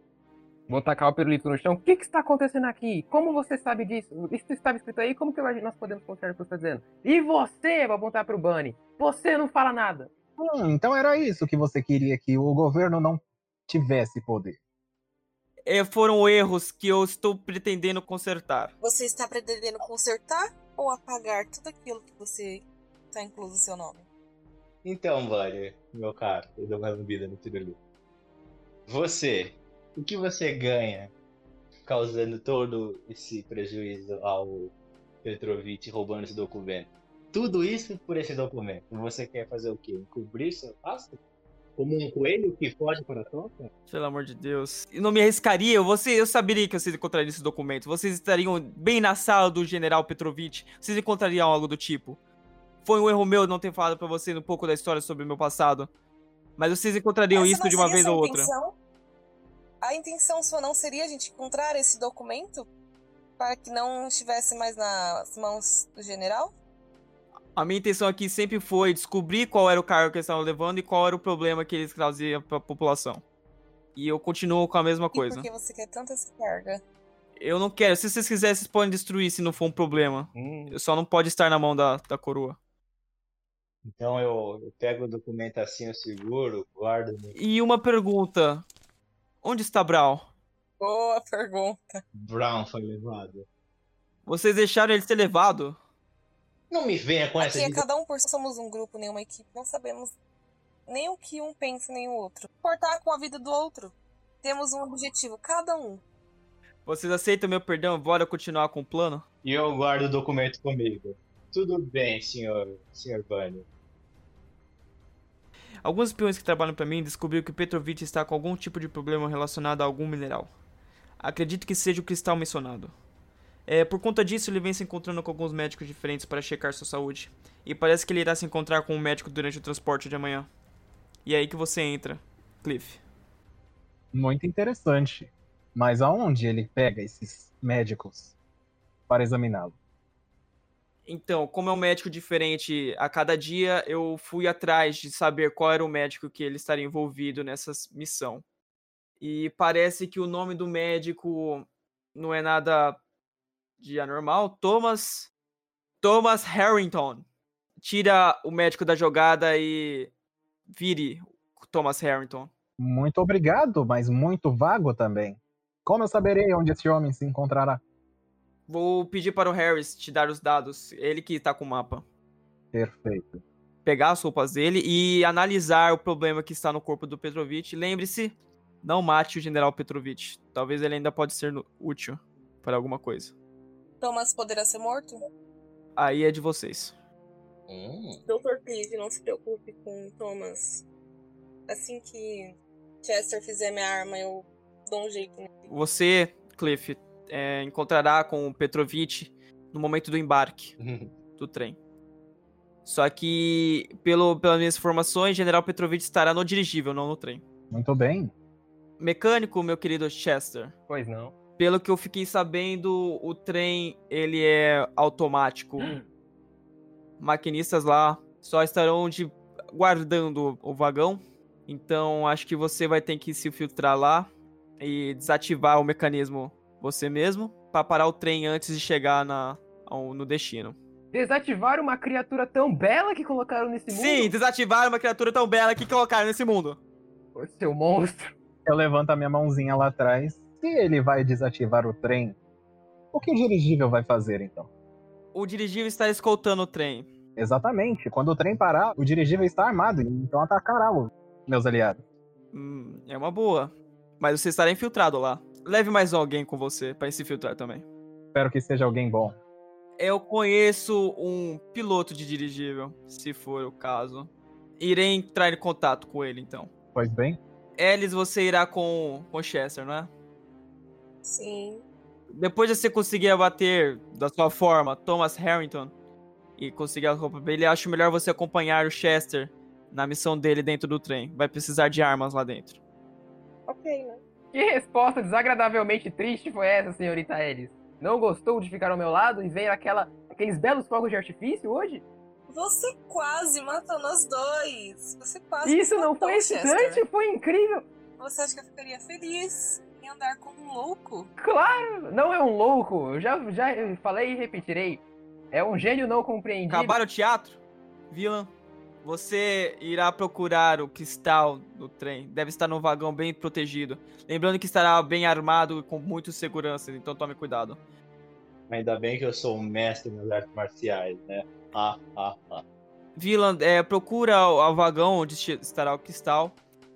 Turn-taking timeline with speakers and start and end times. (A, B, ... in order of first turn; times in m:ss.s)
0:00.7-0:10.1 A
0:10.4-0:14.6 B
0:15.6-0:18.7 C
0:18.8-0:24.1 D
0:24.8-0:27.8 E
0:28.9-0:31.1 E
0:31.8-0:41.2 E
0:41.8-0:43.7 E
0:43.9-0:52.2 C
0:52.8-0:55.9 C
0:56.6-0:58.5 C
0:57.3-0:58.7 D
0:59.8-1:02.7 D
1:03.4-1:06.5 D
1:07.6-1:13.2 C
1:14.0-1:15.5 C
1:15.1-1:16.8 D
1:17.4-1:22.6 C
1:20.3-1:20.8 A
1:23.8-1:27.4 E
1:27.3-1:28.6 C
1:29.4-1:30.3 C
1:30.8-1:32.0 D
1:32.2-1:33.4 E
1:34.2-1:35.8 C
1:36.7-1:37.8 E
1:37.4-1:40.1 D
1:40.8-1:46.0 D
1:46.8-1:49.2 C
1:49.4-1:53.6 E
1:55.8-2:00.5 C
2:01.2-2:02.9 C
2:03.7-2:10.5 C
2:11.2-2:13.0 C
2:14.1-2:18.3 B
2:19.1-2:19.8 B
2:21.1-2:28.4 C
2:29.2-2:33.0 C
2:33.8-2:35.3 C
2:36.0-2:37.2 C
2:37.8-2:40.1 C
2:40.7-2:42.5 C
2:42.8-2:47.8 B
2:48.7-2:52.0 C
2:52.7-2:53.4 B
2:53.8-3:03.3 C
3:04.0-3:05.2 D
3:06.0-3:06.9 C
3:07.7-3:08.2 E
3:08.2-3:10.8 D
3:11.7-3:15.7 D
3:15.7-3:20.7 C
3:20.8-3:21.1 E
3:21.4-3:21.8 C
3:22.8-3:27.4 C
3:27.7-3:28.3 B
3:29.0-3:30.7 C
3:30.9-3:31.3 A
3:31.6-3:35.9 C
3:37.2-3:44.3 C
3:44.8-3:50.8 C
3:51.1-3:54.3 A
3:53.9-3:56.8 C
3:57.3-3:58.3 A
3:58.6-4:02.4 B
4:03.1-4:04.7 B
4:05.3-4:07.1 C
4:07.4-4:12.0 B
4:12.5-4:17.8 C
4:18.3-4:19.4 B
4:20.0-4:26.7 C
4:26.9-4:27.4 B
4:27.8-4:30.1 C
4:31.2-4:31.8 D
4:32.3-4:35.9 C
4:36.6-4:42.8 C
4:43.7-4:44.2 D
4:44.5-4:52.0 A
4:52.5-4:57.0 D
4:55.6-4:57.9 A
4:58.2-5:01.3 D
5:01.4-5:07.0 A
5:06.7-5:07.6 C
5:08.1-5:08.5 C
5:09.0-5:17.8 C
5:18.7-5:22.6 E
5:23.2-5:26.5 C